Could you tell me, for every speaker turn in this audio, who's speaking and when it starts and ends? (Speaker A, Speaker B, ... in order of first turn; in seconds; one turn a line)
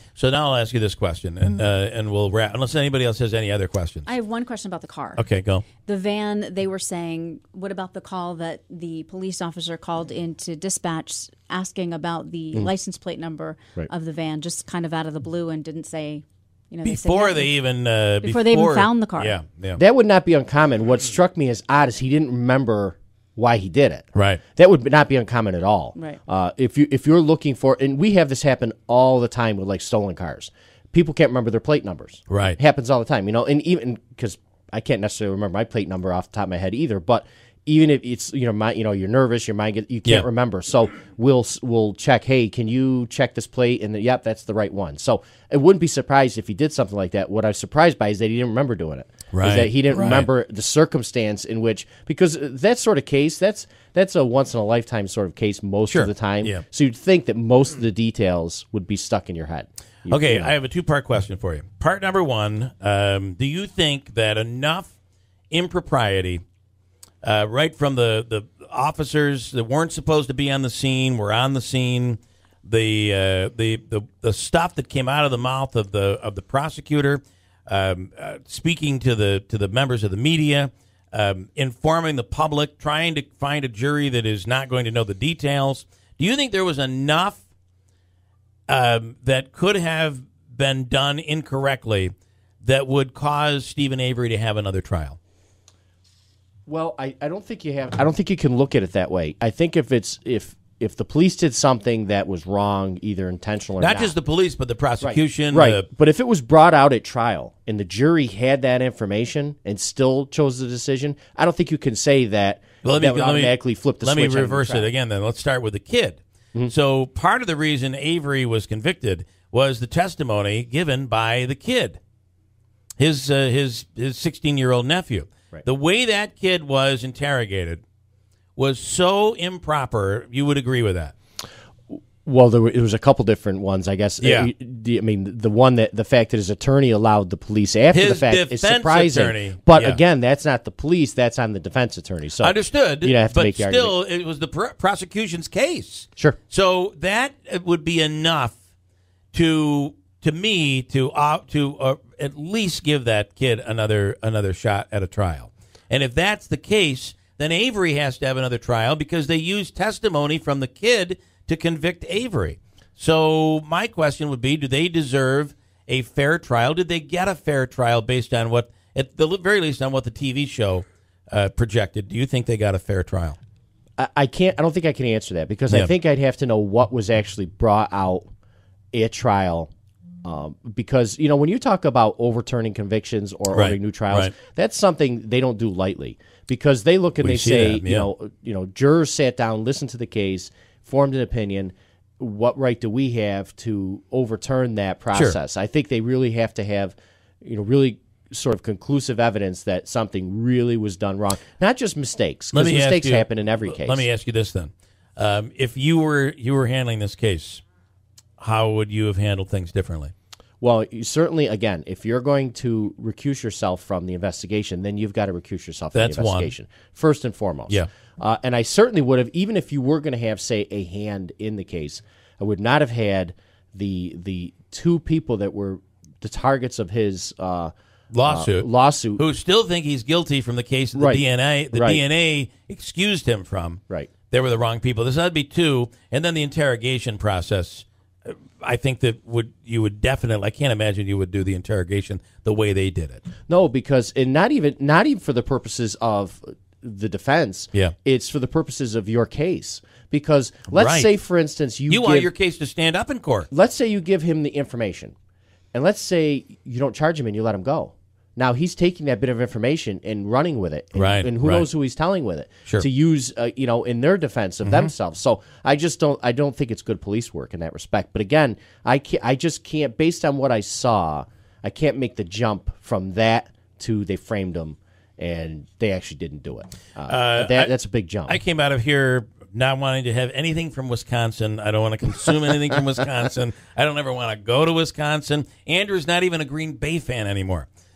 Speaker A: 0.1-4.1
Speaker B: 4.0-5.2
Speaker A: 5.2-5.6
Speaker B: 5.8-17.5
Speaker A: 16.8-19.8
Speaker B: 18.2-19.4
Speaker C: 19.8-60.5
Speaker A: 24.1-24.4
Speaker A: 32.3-32.6
Speaker A: 49.3-50.3
Speaker A: 55.9-56.6
Speaker A: 60.1-64.9
Speaker A: 65.5-66.4
Speaker A: 67.2-87.4
Speaker A: 88.7-95.2
Speaker C: 96.7-104.1
Speaker A: 103.8-105.9
Speaker C: 105.0-114.9
Speaker A: 112.8-122.0
Speaker A: 123.0-127.8
Speaker A: 128.6-131.1
Speaker C: 132.2-143.9
Speaker A: 134.2-134.5
Speaker A: 137.9-140.0
Speaker A: 142.4-148.6
Speaker A: 149.3-173.4
Speaker C: 174.0-178.3
Speaker C: 178.9-179.7
Speaker C: 180.2-204.1
Speaker A: 183.5-184.3
Speaker A: 187.2-188.1
Speaker A: 202.5-207.6
Speaker A: 208.4-210.1
Speaker C: 210.6-227.7
Speaker A: 215.9-216.5
Speaker A: 228.1-243.2
Speaker C: 228.3-229.2
Speaker C: 230.9-232.0
Speaker C: 243.5-252.3
Speaker A: 250.7-251.1
Speaker A: 251.9-253.5
Speaker C: 253.5-255.1
Speaker C: 255.7-278.4
Speaker A: 260.9-261.7
Speaker A: 264.6-264.9
Speaker A: 277.1-277.7
Speaker A: 278.3-287.7